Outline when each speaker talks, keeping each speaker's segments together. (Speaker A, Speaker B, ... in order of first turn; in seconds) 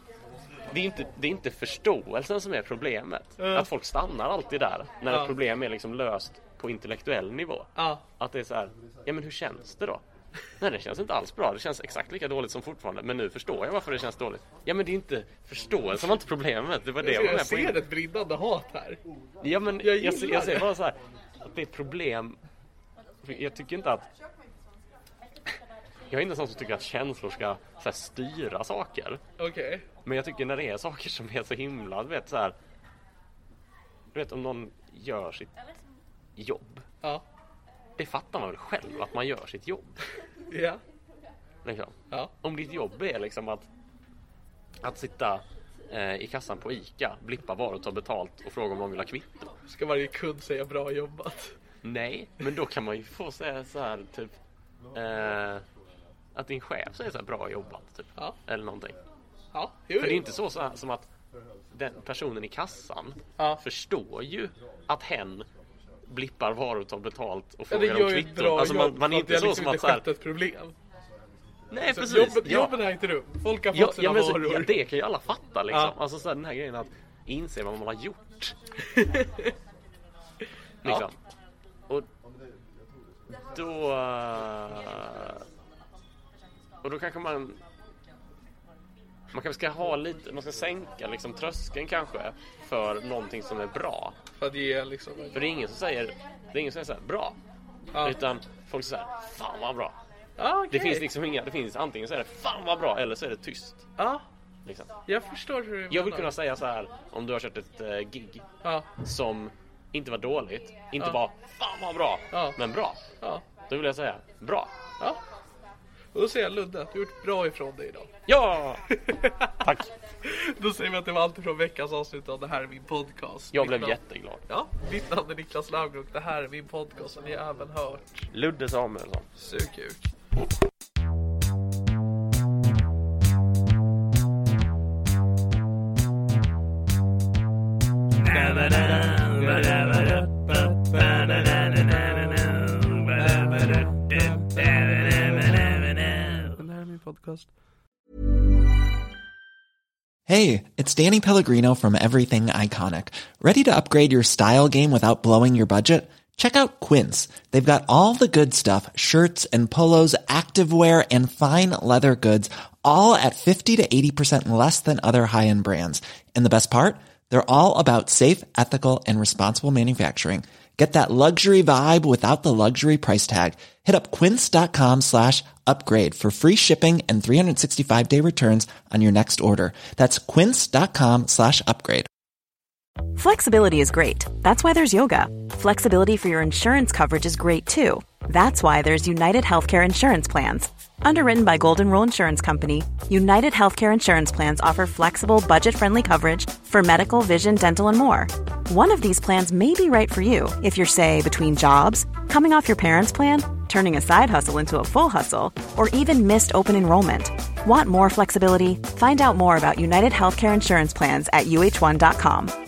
Speaker A: 0.7-10.0, 10.6-17.8, 19.4-22.4, 23.2-24.1, 26.1-29.2, 30.0-32.5, 34.1-35.5, 36.4-36.8, 38.0-40.0, 41.6-43.7, 44.8-49.5, 51.8-54.3, 54.9-55.6, 56.3-59.0, 60.0-61.1, 61.7-65.5, 66.1-70.0, 71.7-72.8, 73.7-78.5, 80.8-81.1, 83.5-85.4, 86.8-87.6, 89.3-94.1, 95.3-97.4, 98.0-99.9, 100.7-103.8, 105.9-108.4, 109.0-113.0, 113.7-114.7, 118.3-118.8, 119.6-119.9, 123.5-124.5, 128.3-129.3
Speaker B: 3.4-3.7, 7.8-8.0, 17.0-19.0, 19.8-20.7, 29.4-29.9, 40.5-40.8, 49.7-51.5, 59.5-60.2, 67.7-70.7, 71.9-74.7, 78.9-79.3, 94.4-95.4, 100.4-101.0, 104.0-104.2, 105.1-106.3, 108.6-108.9, 116.1-118.1, 119.0-119.5, 120.2-124.0, 124.5-128.2, 129.4-130.1, 138.3-147.5
Speaker C: 150.3-182.1
Speaker D: 183.1-212.5